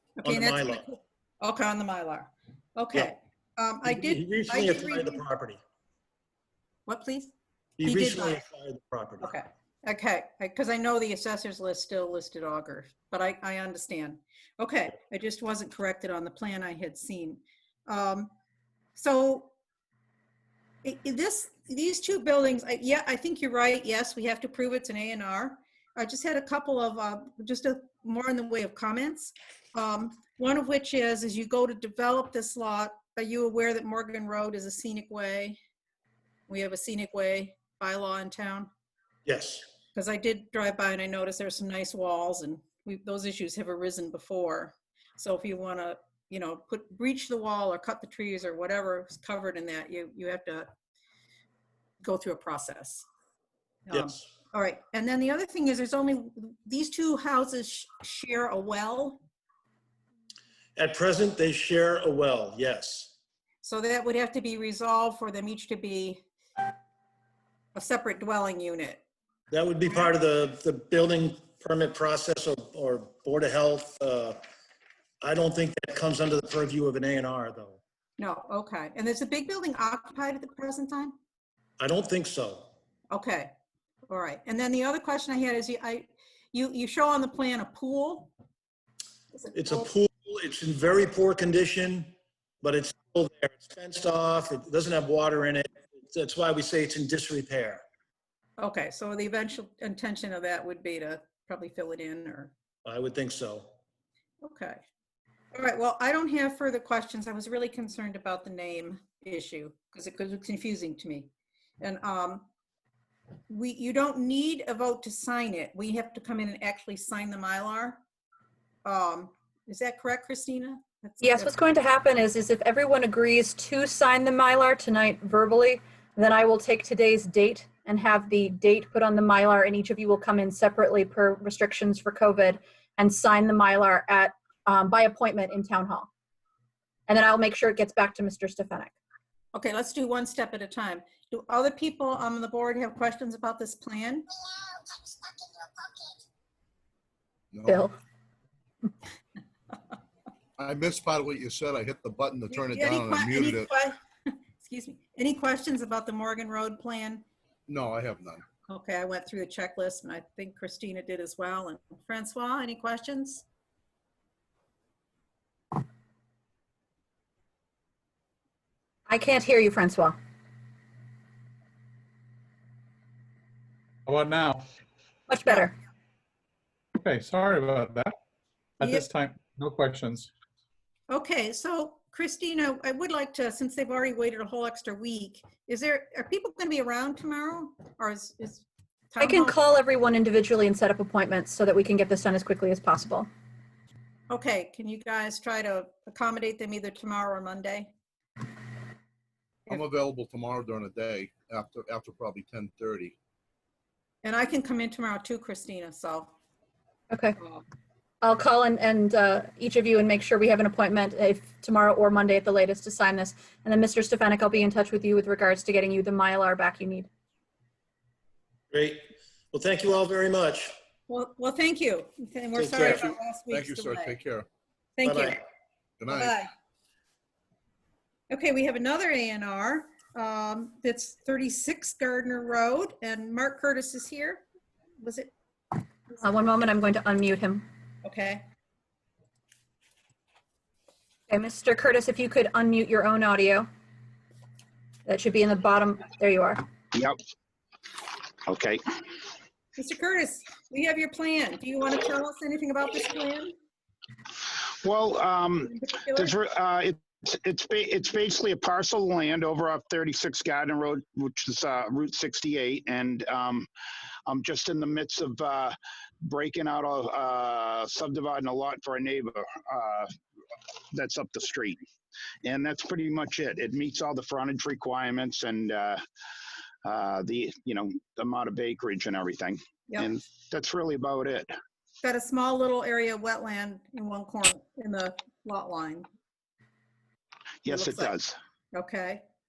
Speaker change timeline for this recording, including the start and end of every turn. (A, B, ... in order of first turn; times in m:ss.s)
0:00.2-0:05.2 A
0:00.2-0:00.8 B
0:03.8-0:05.6 B
0:06.9-0:07.3 A
0:07.8-0:09.3 B
0:07.8-0:08.4 A
0:09.2-0:18.3 A
0:19.0-0:19.5 A
0:20.8-0:35.6 A
0:36.5-0:38.7 A
0:39.3-0:39.7 B
0:39.9-0:50.7 A
0:52.0-0:53.0 A
0:53.9-0:59.2 A
0:53.9-0:54.2 B
1:00.8-1:03.1 B
1:03.6-1:06.2 A
1:07.7-1:09.0 A
1:09.5-1:14.4 B
1:15.2-1:17.8 B
1:18.2-1:21.1 A
1:21.8-1:22.7 B
1:23.1-1:23.5 A
1:24.1-1:28.3 A
1:29.3-1:29.8 A
1:29.5-1:37.8 B
1:38.6-1:42.5 A
1:42.8-1:43.7 B
1:44.4-1:44.8 A
1:45.5-1:52.4 A
1:53.5-1:58.0 A
1:58.8-2:01.5 A
2:01.2-2:16.1 C
2:17.1-2:18.9 C
2:19.5-2:24.3 A
2:27.5-2:27.9 D
2:27.7-2:27.9 C
2:30.6-2:33.7 D
2:32.5-2:37.2 A
2:37.7-2:38.4 D
2:38.7-2:43.4 A
2:49.1-2:50.2 C
2:54.1-2:54.6 E
2:55.3-2:55.7 C
2:57.0-2:58.1 E
2:58.8-2:59.1 A
2:58.8-3:00.3 E
3:01.1-3:09.6 A
3:09.2-3:13.3 C
3:14.3-3:17.9 A
3:19.7-3:23.2 D
3:24.2-3:26.3 A
3:27.1-3:27.4 C
3:28.2-3:37.1 C
3:38.7-3:40.8 B
3:41.1-3:44.1 A
3:42.5-3:43.1 B
3:42.8-3:44.5 D
3:45.0-3:45.4 A
3:45.0-3:45.4 B
3:46.0-3:46.4 D
3:46.1-3:46.5 A
3:48.3-3:54.4 A
3:55.0-3:55.3 A
3:56.2-3:57.6 C
3:58.0-3:58.4 A
4:01.3-4:03.7 C
4:05.1-4:06.6 C
4:08.5-4:08.8 F
4:09.8-4:13.5 A
4:14.8-4:23.7 F
4:15.6-4:16.4 A
4:24.3-4:30.1 F
4:30.9-4:31.8 F
4:32.4-4:36.0 F
4:36.8-4:41.5 F
4:42.0-4:46.1 A
4:47.6-4:48.3 F
4:47.7-4:48.1 A
4:48.7-4:49.2 A